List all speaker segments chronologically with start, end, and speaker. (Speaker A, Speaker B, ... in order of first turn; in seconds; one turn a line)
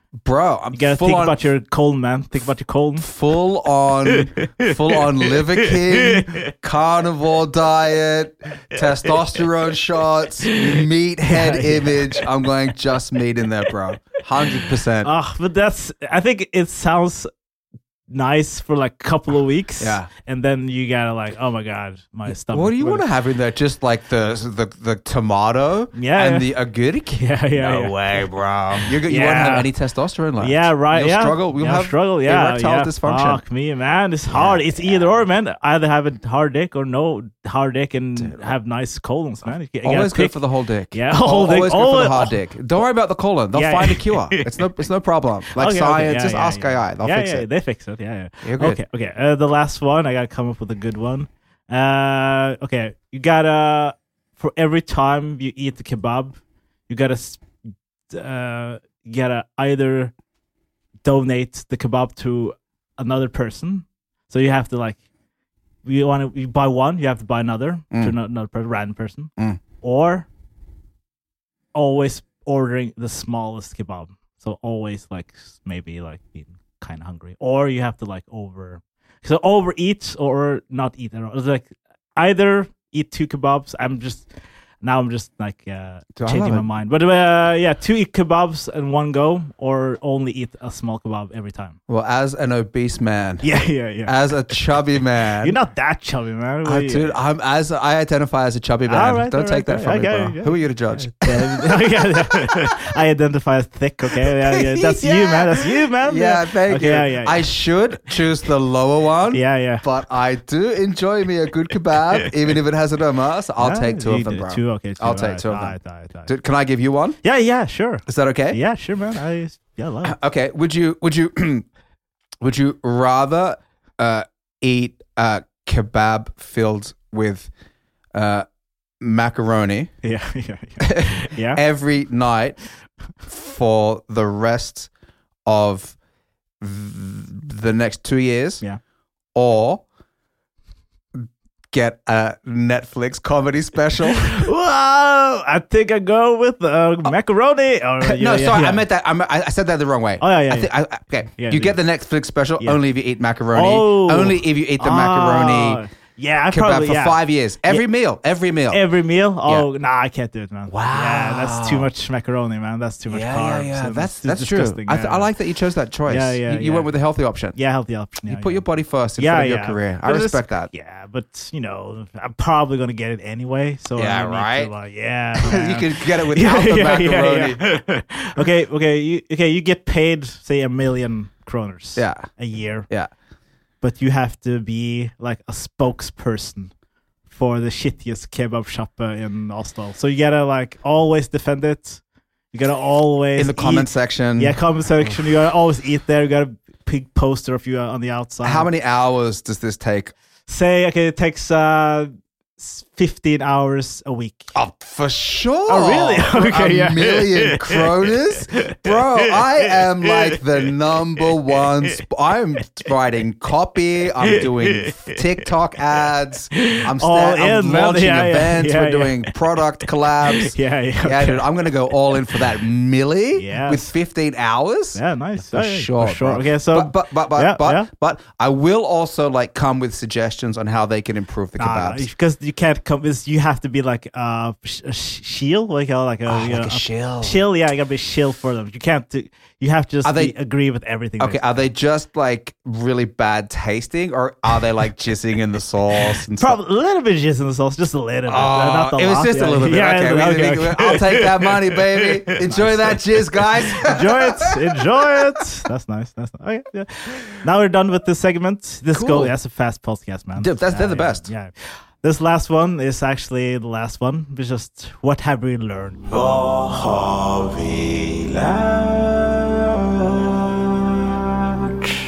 Speaker A: 0.2-1.5
Speaker B: 0.7-3.1
Speaker A: 3.0-15.1
Speaker B: 11.3-12.0
Speaker B: 15.0-17.3
Speaker B: 18.1-23.0
Speaker A: 19.8-20.1
Speaker A: 22.3-33.4
Speaker B: 25.9-26.5
Speaker B: 27.1-27.9
Speaker B: 28.8-29.7
Speaker B: 30.4-40.4
Speaker A: 34.3-34.8
Speaker A: 38.2-38.4
Speaker A: 39.8-47.5
Speaker B: 40.9-42.4
Speaker B: 43.5-44.6
Speaker B: 45.5-57.4
Speaker A: 48.4-48.8
Speaker B: 58.1-60.1
Speaker B: 61.0-65.0
Speaker B: 65.8-70.3
Speaker B: 71.7-84.3
Speaker B: 84.8-91.8
Speaker A: 86.2-86.7
Speaker A: 91.9-93.5
Speaker B: 93.4-94.1
Speaker A: 94.0-95.6
Speaker B: 95.4-97.2
Speaker A: 96.6-102.7
Speaker B: 98.9-107.5
Speaker A: 104.3-117.2
Speaker B: 109.3-109.8
Speaker B: 113.6-116.3
Speaker B: 117.2-120.1
Speaker A: 118.0-118.6
Speaker A: 120.0-121.7
Speaker A: 122.4-127.5
Speaker A: 128.1-128.4
Speaker A: 129.0-129.9
Speaker B: 130.0-131.6
Speaker A: 130.8-132.6
Speaker A: 133.2-134.9
Speaker A: 135.4-135.9
Speaker A: 136.6-138.6
Speaker A: 139.3-139.8
Speaker A: 141.2-144.5
Speaker B: 144.2-148.8
Speaker A: 148.0-155.8
Speaker B: 150.2-150.7
Speaker B: 151.3-151.8
Speaker B: 153.5-157.8
Speaker A: 156.5-158.8
Speaker B: 158.7-165.3
Speaker A: 160.7-161.9
Speaker A: 163.1-167.6
Speaker B: 166.1-166.9
Speaker B: 167.5-168.6
Speaker A: 168.2-170.7
Speaker B: 169.2-182.9
Speaker A: 173.9-174.7
Speaker A: 175.3-177.7
Speaker A: 181.9-182.3
Speaker B: 183.8-186.7
Speaker B: 187.3-192.0
Speaker B: 192.5-198.7
Speaker A: 193.3-195.2
Speaker A: 198.4-200.1
Speaker B: 200.5-204.5
Speaker A: 204.5-232.1
Speaker B: 205.7-207.7
Speaker B: 216.6-219.4
Speaker B: 220.3-221.5
Speaker B: 223.3-223.9
Speaker B: 224.9-227.9
Speaker B: 231.6-241.7
Speaker A: 236.2-237.4
Speaker A: 240.0-240.3
Speaker A: 241.2-246.6
Speaker B: 246.4-251.5
Speaker A: 248.3-254.5
Speaker B: 252.0-253.0
Speaker B: 253.8-266.0
Speaker A: 258.9-259.3
Speaker A: 260.4-261.2
Speaker C: 266.1-270.4
Speaker C: 271.5-271.9